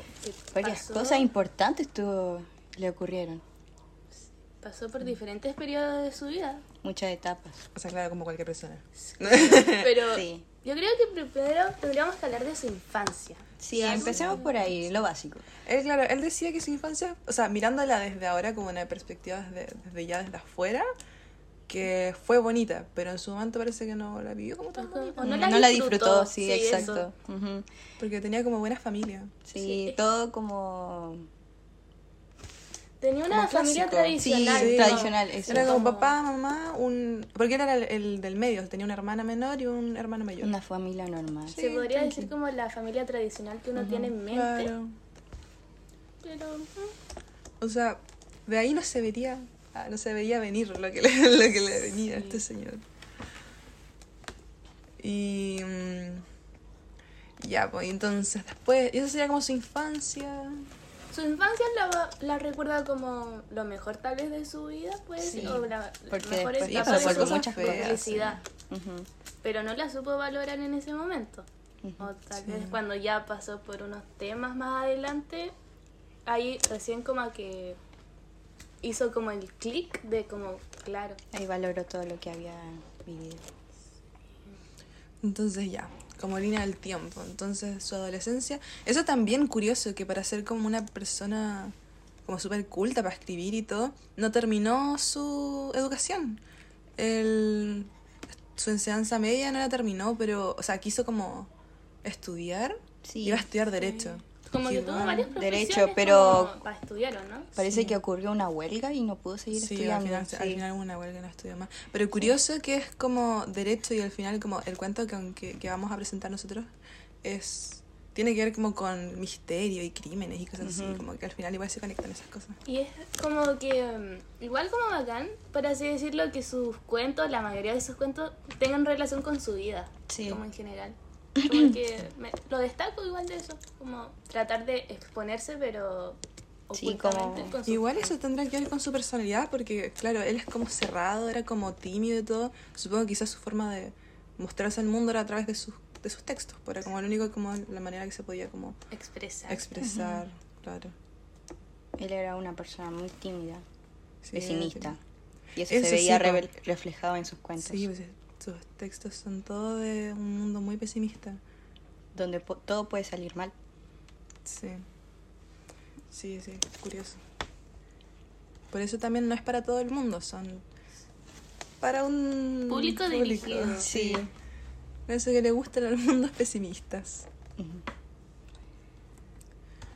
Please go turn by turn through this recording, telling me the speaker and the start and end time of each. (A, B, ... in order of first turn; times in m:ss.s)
0:00.2-0:01.3 A
0:00.5-0:03.4 B
0:04.5-0:06.6 A
0:06.8-0:07.6 B
0:07.7-0:10.0 C
0:09.1-0:14.5 A
0:10.0-0:10.4 B
0:13.6-0:15.4 B
0:13.8-0:14.7 C
0:15.6-0:20.8 C
0:21.7-0:25.7 C
0:24.8-0:27.0 A
0:25.2-0:27.6 B
0:26.7-0:27.0 C
0:28.0-0:29.3 C
0:29.4-0:31.3 B
0:29.6-0:30.0 A
0:33.0-0:36.1 A
0:33.3-0:40.5 C
0:34.2-0:35.7 B
0:40.4-0:42.2 B
0:41.5-0:44.7 A
0:41.5-0:41.9 C
0:43.8-0:44.1 B
0:44.3-0:44.9 C
0:46.2-0:46.9 A
0:47.6-0:52.8 C
0:52.2-0:52.4 A
0:55.0-0:56.2 C
0:57.4-1:00.7 C
1:01.1-1:08.4 A
1:05.2-1:08.0 B
1:05.3-1:05.6 C
1:06.6-1:08.4 C
1:08.7-1:09.1 B
1:09.4-1:11.4 A
1:11.8-1:12.1 B
1:12.0-1:15.5 A
1:12.4-1:12.8 C
1:16.2-1:17.8 A
1:18.8-1:21.2 A
1:21.3-1:23.4 B
1:25.2-1:31.7 C
1:32.2-1:36.4 C
1:37.0-1:41.5 C
1:42.0-1:45.3 C
1:43.0-1:43.5 B
1:43.8-1:47.6 A
1:45.3-1:46.6 B
1:47.6-1:50.6 B
1:47.7-1:48.0 C
1:49.5-1:56.7 C
1:57.2-2:02.6 C
2:00.6-2:01.0 B
2:02.6-2:18.1 A
2:10.1-2:10.4 B
2:11.4-2:11.8 B
2:16.7-2:17.6 B
2:17.7-2:28.8 C
2:28.9-2:29.6 A
2:29.5-2:30.9 C
2:29.8-2:30.2 B
2:32.0-2:33.6 B
2:34.2-2:34.9 C
2:34.3-2:35.0 B
2:35.5-2:37.8 B
2:35.6-2:36.5 C
2:37.6-2:41.4 C
2:42.1-2:43.5 B
2:44.4-2:44.8 C
2:46.1-2:47.2 C
2:48.7-2:50.6 C
2:51.8-2:54.3 C
2:52.7-2:53.9 A
2:53.8-2:54.3 B
2:55.1-2:57.2 C
2:57.6-2:57.8 B